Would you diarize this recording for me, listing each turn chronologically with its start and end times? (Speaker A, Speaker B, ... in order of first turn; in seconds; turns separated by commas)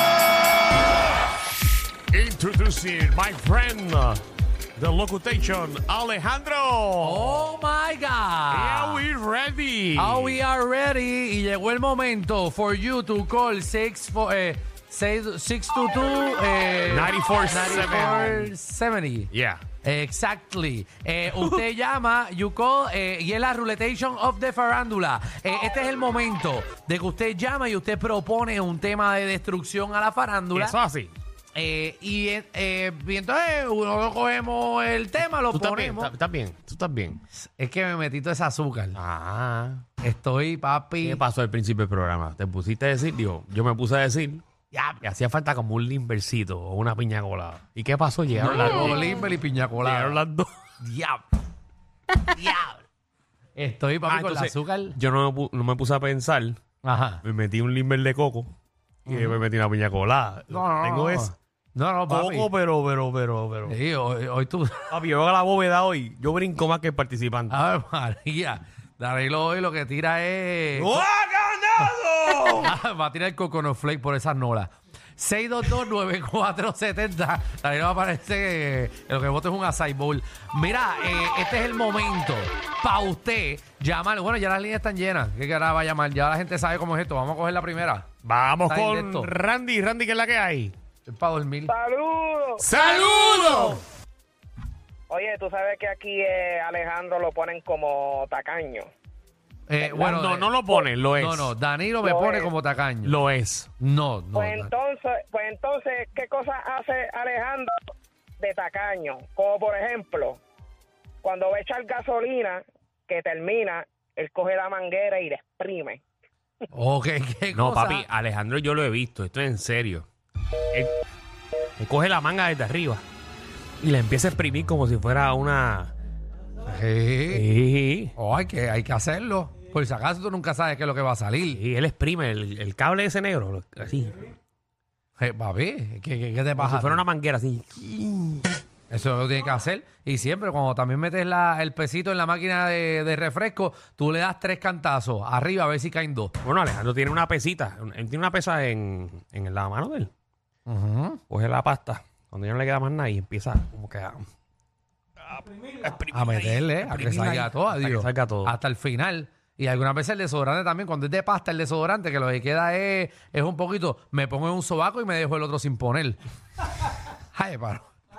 Speaker A: 2.1-4.2, Speaker A: 4.8-7.4, Speaker B: 7.0-9.1, Speaker A: 8.5-10.4, Speaker B: 10.0-19.3, Speaker A: 16.9-18.5, Speaker A: 19.3-19.6, Speaker B: 19.8-30.8, Speaker A: 21.3-21.6, Speaker A: 30.6-31.1, Speaker B: 31.6-36.1, Speaker A: 35.5-37.2, Speaker B: 37.3-39.0, Speaker A: 39.0-39.8, Speaker B: 40.0-41.2, Speaker A: 41.0-44.4, Speaker B: 44.7-45.0, Speaker A: 45.0-49.1, Speaker B: 48.4-50.2, Speaker A: 49.8-50.5, Speaker B: 50.8-51.2, Speaker B: 52.4-52.8, Speaker B: 53.6-55.0, Speaker A: 54.1-56.6, Speaker B: 56.8-57.2, Speaker A: 57.2-58.5, Speaker A: 59.1-61.4, Speaker B: 59.1-59.4, Speaker B: 60.5-62.5, Speaker A: 62.1-63.8, Speaker B: 63.7-65.0, Speaker A: 64.9-67.5, Speaker B: 67.5-71.0, Speaker A: 70.8-72.7, Speaker B: 72.6-88.1, Speaker A: 88.2-90.8, Speaker B: 88.7-89.3, Speaker B: 91.1-91.7, Speaker C: 91.7-92.8, Speaker A: 92.6-93.8, Speaker C: 95.1-98.9, Speaker B: 99.7-100.5, Speaker A: 99.9-101.5, Speaker B: 101.2-103.2, Speaker C: 102.0-102.5, Speaker A: 103.0-103.7, Speaker B: 103.8-104.7, Speaker C: 104.3-107.8, Speaker C: 108.4-110.4, Speaker C: 111.2-116.0, Speaker B: 116.7-118.0, Speaker A: 117.5-120.1, Speaker A: 121.8-123.0, Speaker A: 123.8-125.9, Speaker B: 126.7-127.5, Speaker A: 127.3-128.1, Speaker B: 128.2-131.6, Speaker A: 131.5-134.4, Speaker B: 135.2-137.0, Speaker A: 136.6-138.5, Speaker B: 138.9-146.3, Speaker A: 146.4-150.1, Speaker B: 150.7-151.2, Speaker A: 151.3-154.2, Speaker A: 155.2-158.6, Speaker B: 156.1-166.2, Speaker B: 167.3-167.8